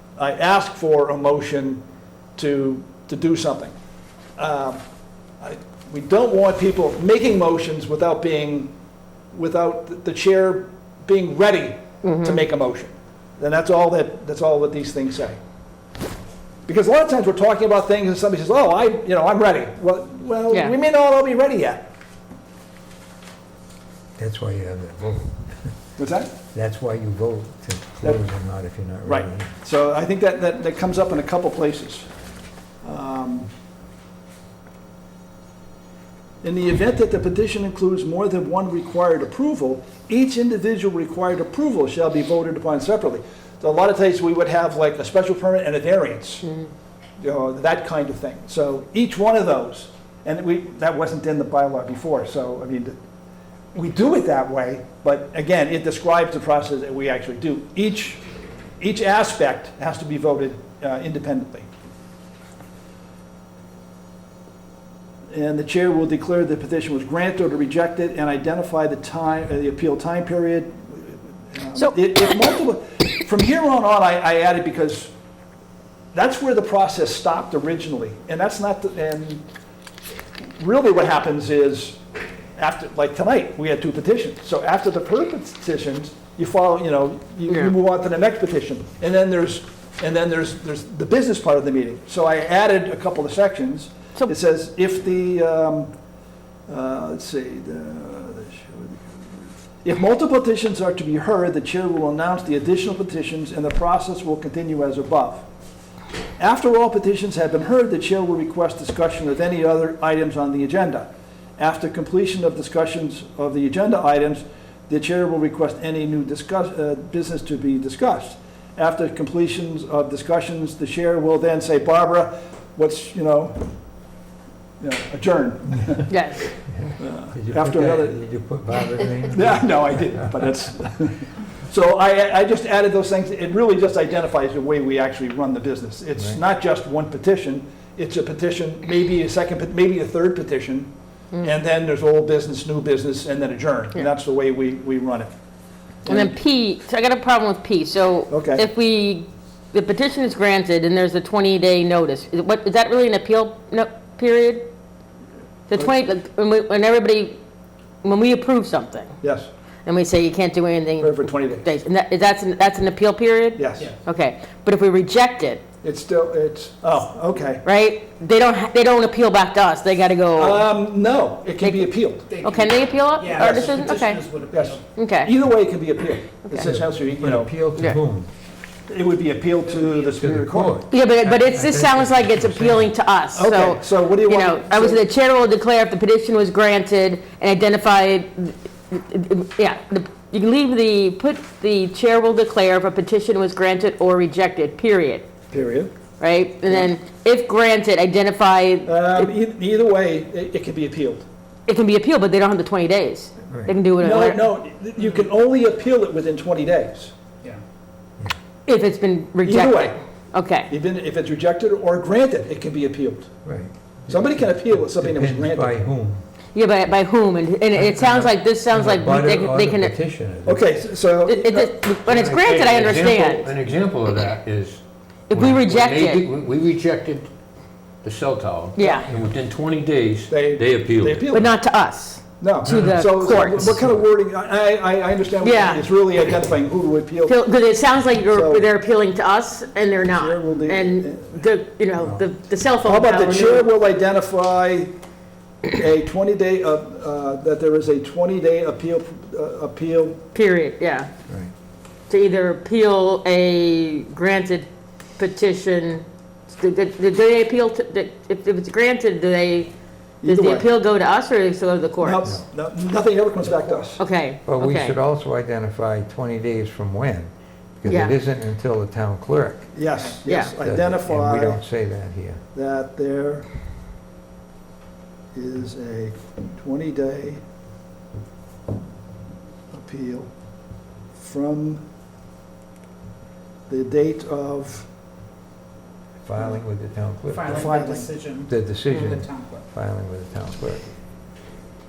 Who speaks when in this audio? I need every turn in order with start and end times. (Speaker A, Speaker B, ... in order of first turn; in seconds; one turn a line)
Speaker A: 0.2-1.8
Speaker A: 2.4-3.7
Speaker A: 4.4-4.8
Speaker A: 5.4-8.7
Speaker A: 9.3-15.4
Speaker B: 12.0-12.4
Speaker A: 16.7-21.9
Speaker C: 24.2-25.7
Speaker A: 26.0-26.3
Speaker C: 26.5-29.5
Speaker A: 29.1-32.1
Speaker A: 32.8-33.5
Speaker A: 36.4-46.5
Speaker B: 46.4-46.7
Speaker A: 47.2-53.0
Speaker A: 53.7-58.2
Speaker A: 58.8-61.7
Speaker A: 65.3-75.1
Speaker B: 71.8-72.4
Speaker A: 76.1-79.5
Speaker A: 80.6-82.0
Speaker A: 82.6-95.9
Speaker A: 96.7-99.2
Speaker A: 99.8-105.5
Speaker A: 106.4-123.7
Speaker A: 124.8-126.2
Speaker B: 126.1-126.5
Speaker C: 126.7-130.3
Speaker A: 127.0-128.2
Speaker A: 129.3-145.3
Speaker A: 146.0-146.4
Speaker B: 146.1-154.7
Speaker A: 148.3-148.7
Speaker B: 155.7-157.4
Speaker B: 158.0-159.2
Speaker A: 159.2-159.5
Speaker B: 159.9-165.6
Speaker A: 161.0-161.7
Speaker A: 163.6-163.9
Speaker A: 165.8-167.6
Speaker B: 167.6-170.7
Speaker A: 170.4-172.3
Speaker B: 171.6-174.2
Speaker D: 172.3-174.8
Speaker A: 173.3-177.5
Speaker B: 175.0-175.3
Speaker C: 176.6-178.3
Speaker A: 178.9-180.8
Speaker C: 180.2-182.9
Speaker B: 180.9-195.3
Speaker A: 183.3-185.0
Speaker A: 195.5-195.9
Speaker B: 196.2-199.3
Speaker A: 198.9-201.3
Speaker B: 201.7-204.4
Speaker C: 203.5-203.7
Speaker A: 204.0-207.1
Speaker B: 208.7-210.7
Speaker A: 209.4-210.0
Speaker A: 210.7-213.3
Speaker C: 213.4-216.2
Speaker A: 214.1-215.8
Speaker B: 216.5-219.9
Speaker C: 217.7-220.7
Speaker A: 220.4-221.8
Speaker B: 221.3-223.5
Speaker E: 222.1-227.3
Speaker B: 225.3-226.2
Speaker E: 228.0-231.3
Speaker B: 228.8-229.1
Speaker A: 230.3-231.6
Speaker B: 231.3-233.9
Speaker A: 232.4-237.4
Speaker C: 232.7-233.0
Speaker B: 235.4-235.8
Speaker B: 237.3-243.7
Speaker A: 238.3-238.7
Speaker A: 240.1-241.5
Speaker A: 242.8-244.9
Speaker A: 245.7-250.2
Speaker B: 250.3-251.1
Speaker B: 252.1-259.7
Speaker A: 260.2-260.7
Speaker B: 260.2-262.2
Speaker A: 262.0-264.0
Speaker B: 264.0-265.0
Speaker C: 264.5-269.8
Speaker B: 267.9-268.1
Speaker A: 269.8-271.6
Speaker B: 270.3-270.5
Speaker C: 270.3-272.4
Speaker A: 272.5-273.5
Speaker A: 275.3-277.4
Speaker A: 279.7-280.3
Speaker A: 281.1-281.8
Speaker A: 283.7-284.9
Speaker C: 286.2-287.8
Speaker D: 287.3-289.6
Speaker A: 287.5-288.1
Speaker C: 288.5-290.9
Speaker B: 288.9-289.2